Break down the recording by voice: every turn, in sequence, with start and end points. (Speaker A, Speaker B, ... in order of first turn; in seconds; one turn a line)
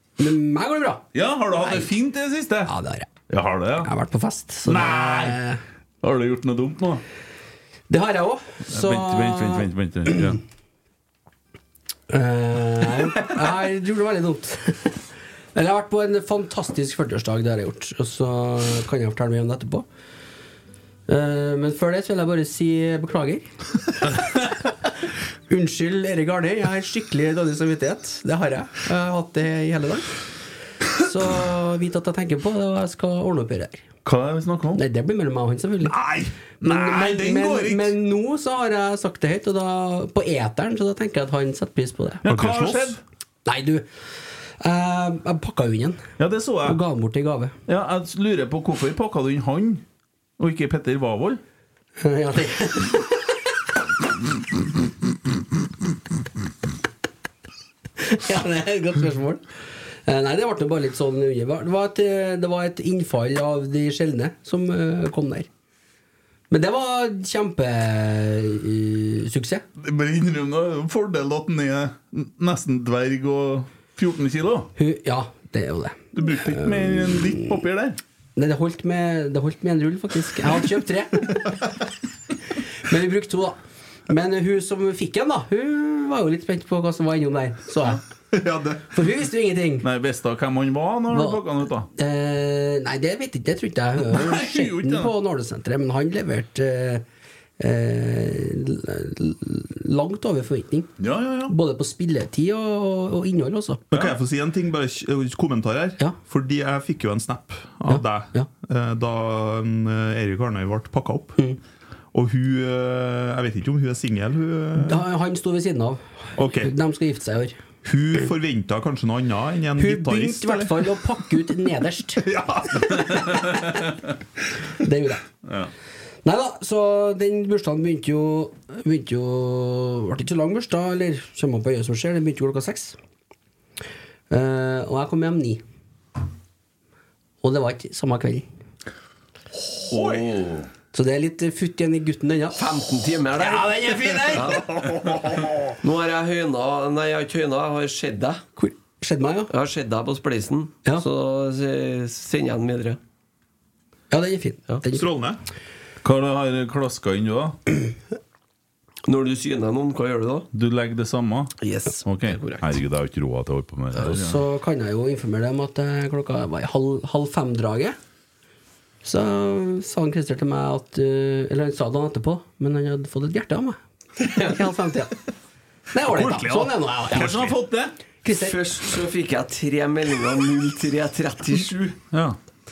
Speaker A: 0.2-1.0
Speaker B: 1.1-2.7
Speaker A: 1.6-1.9
Speaker A: 2.6-3.1
Speaker B: 3.3-3.9
Speaker A: 3.8-5.6
Speaker B: 4.7-5.4
Speaker B: 6.0-7.0
Speaker A: 7.9-10.4
Speaker B: 8.7-10.4
Speaker A: 12.1-15.0
Speaker A: 15.6-19.9
Speaker A: 21.1-23.5
Speaker A: 25.5-30.2
Speaker A: 31.0-33.9
Speaker B: 34.0-34.8
Speaker A: 34.7-36.0
Speaker B: 35.9-37.9
Speaker A: 36.6-42.2
Speaker B: 42.2-43.0
Speaker C: 42.2-43.0
Speaker A: 43.5-43.9
Speaker A: 44.6-46.1
Speaker B: 46.2-46.8
Speaker A: 46.6-47.5
Speaker B: 47.7-49.8
Speaker B: 50.4-51.4
Speaker A: 52.0-53.3
Speaker A: 58.0-59.5
Speaker A: 60.0-65.5
Speaker A: 66.5-69.7
Speaker B: 69.8-74.7
Speaker A: 74.8-77.5
Speaker B: 76.1-78.0
Speaker A: 78.4-81.6
Speaker A: 82.8-88.0
Speaker C: 88.3-88.9
Speaker A: 88.9-89.9
Speaker B: 89.8-91.9
Speaker A: 91.1-97.0
Speaker B: 94.0-95.1
Speaker A: 97.6-100.9
Speaker B: 101.0-101.5
Speaker A: 101.5-104.0
Speaker C: 103.9-111.4
Speaker A: 107.9-108.5
Speaker C: 112.1-115.1
Speaker A: 114.8-117.6
Speaker C: 116.4-116.7
Speaker C: 117.8-121.0
Speaker A: 119.8-122.4
Speaker C: 122.3-123.0
Speaker B: 123.1-123.8
Speaker A: 124.8-125.2
Speaker A: 126.2-133.0
Speaker A: 134.3-135.6
Speaker A: 137.4-138.5
Speaker B: 139.9-140.7
Speaker C: 139.9-140.2
Speaker A: 140.9-142.7
Speaker D: 142.5-144.6
Speaker A: 143.3-144.6
Speaker C: 144.8-145.7
Speaker D: 145.8-148.4
Speaker A: 148.6-149.5
Speaker D: 149.5-153.0
Speaker A: 154.1-155.1
Speaker C: 154.9-155.4
Speaker B: 156.0-157.6
Speaker D: 159.1-160.5
Speaker B: 160.5-164.4
Speaker D: 161.6-162.7
Speaker A: 164.0-168.0
Speaker A: 169.0-175.2
Speaker A: 175.9-177.5
Speaker C: 176.1-177.5
Speaker B: 177.1-177.9
Speaker A: 178.2-178.7
Speaker D: 178.3-181.9
Speaker B: 182.1-182.4